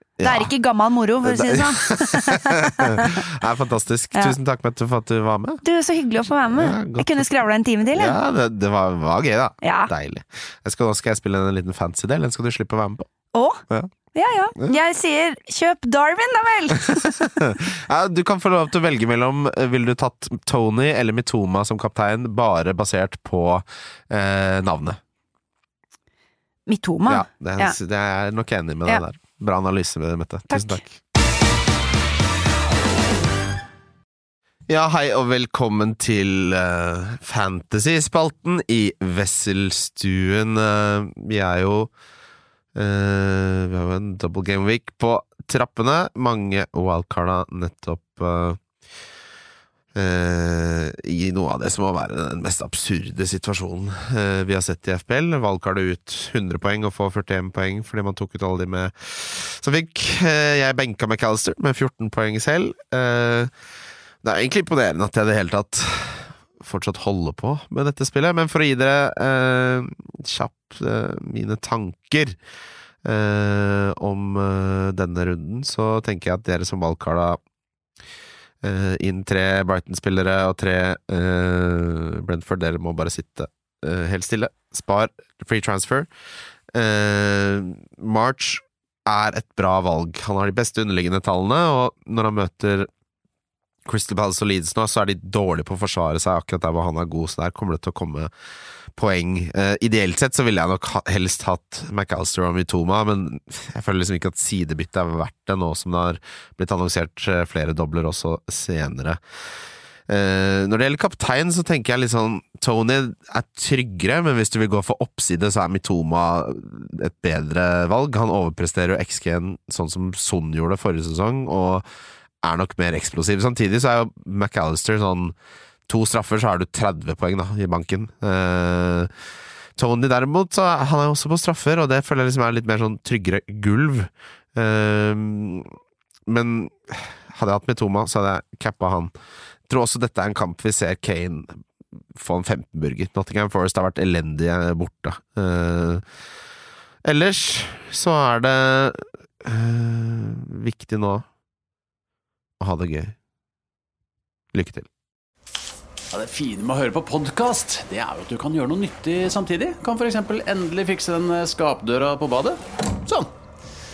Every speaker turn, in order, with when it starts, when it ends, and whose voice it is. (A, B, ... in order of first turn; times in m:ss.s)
0:00.2-0:00.5 A
0:00.2-0:03.3 B
0:01.2-0:05.6 A
0:05.6-0:08.2 B
0:06.5-0:07.3 A
0:07.9-0:13.1 A
0:09.6-0:09.9 B
0:13.3-0:17.2 B
0:16.9-0:25.0 A
0:26.7-0:27.8 B
0:27.1-0:31.0 A
0:30.5-0:30.8 B
0:34.7-0:41.9 A
0:42.7-0:48.6 A
0:49.9-1:03.5 A
1:04.2-1:12.4 A
1:13.0-1:17.4 A
1:18.6-1:26.1 A
1:26.7-1:32.9 A
1:33.8-1:38.3 A
1:38.9-1:49.2 A
1:50.1-2:01.8 A
2:02.4-2:05.3 A
2:05.9-2:09.1 A
2:09.8-2:15.7 A
2:16.3-2:19.1 A
2:19.7-2:21.6 A
2:22.1-2:26.0 A
2:27.0-2:31.2 A
2:32.6-2:33.2 A
2:34.5-2:34.9 A
2:36.1-2:43.3 C